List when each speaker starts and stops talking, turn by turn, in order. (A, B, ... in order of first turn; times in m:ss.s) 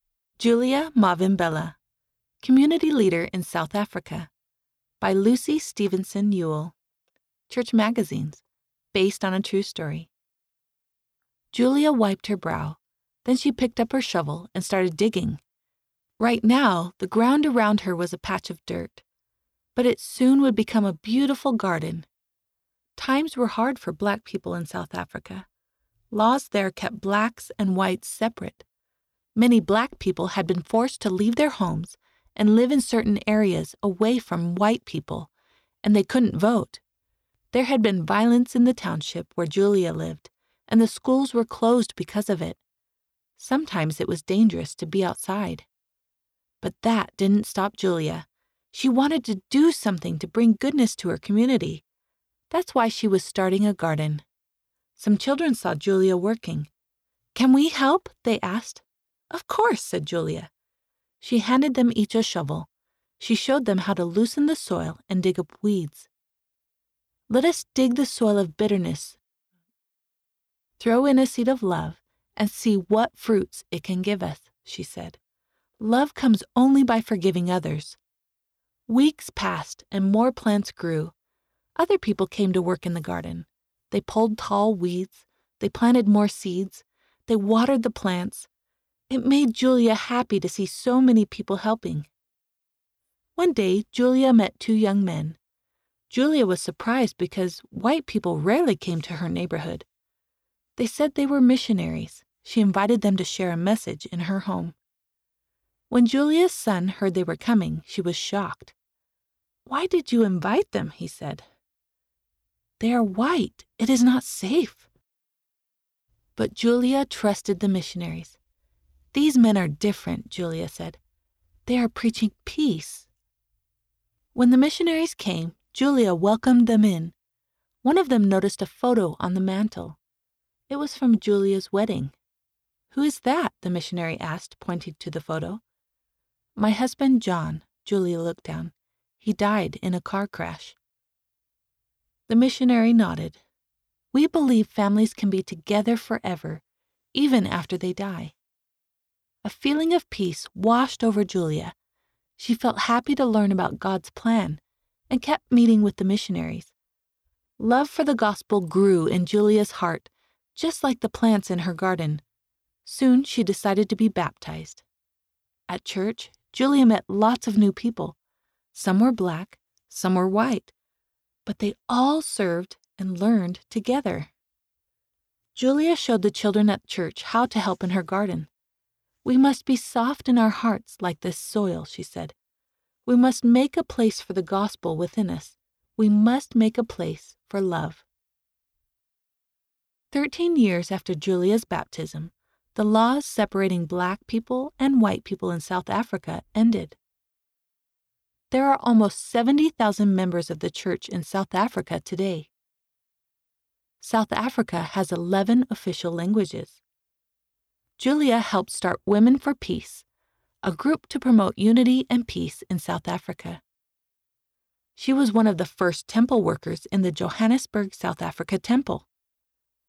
0:00.4-0:01.8 A
0:02.4-0:04.3 A
0:05.0-0:06.7 A
0:07.5-0:10.1 A
0:11.5-0:15.4 A
0:16.2-0:19.0 A
0:19.7-0:22.1 A
0:23.0-0:25.5 A
0:26.1-0:28.6 A
0:29.3-0:35.3 A
0:35.8-0:36.8 A
0:37.5-0:42.6 A
0:43.4-0:45.7 A
0:46.6-0:51.8 A
0:52.5-0:54.2 A
0:55.0-0:56.7 A
0:57.3-1:00.5 A
1:01.2-1:06.1 A
1:07.3-1:09.2 A
1:10.8-1:15.2 A
1:15.8-1:18.0 A
1:18.9-1:21.1 A
1:21.8-1:28.5 A
1:29.1-1:32.1 A
1:33.4-1:35.4 A
1:36.1-1:39.8 A
1:40.8-1:44.8 A
1:45.9-1:48.7 A
1:49.6-1:51.4 A
1:52.8-1:54.9 A
1:56.4-1:58.4 A
1:59.1-2:01.0 A
2:01.6-2:03.1 A
2:04.3-2:07.1 A
2:07.8-2:10.0 A
2:10.7-2:12.1 A
2:12.9-2:15.6 A
2:16.6-2:20.8 A
2:22.3-2:23.4 A
2:24.1-2:28.3 A
2:29.4-2:31.7 A
2:32.4-2:36.7 A
2:37.6-2:42.2 A
2:42.8-2:44.8 A
2:45.7-2:48.2 A
2:48.7-2:50.7 A
2:51.4-2:54.3 A
2:55.5-2:58.5 A
2:59.2-3:02.3 A
3:03.0-3:08.0 A
3:10.1-3:17.0 A
3:18.5-3:22.5 A
3:24.0-3:26.8 A
3:28.0-3:30.0 A
3:30.6-3:33.6 A
3:34.9-3:39.1 A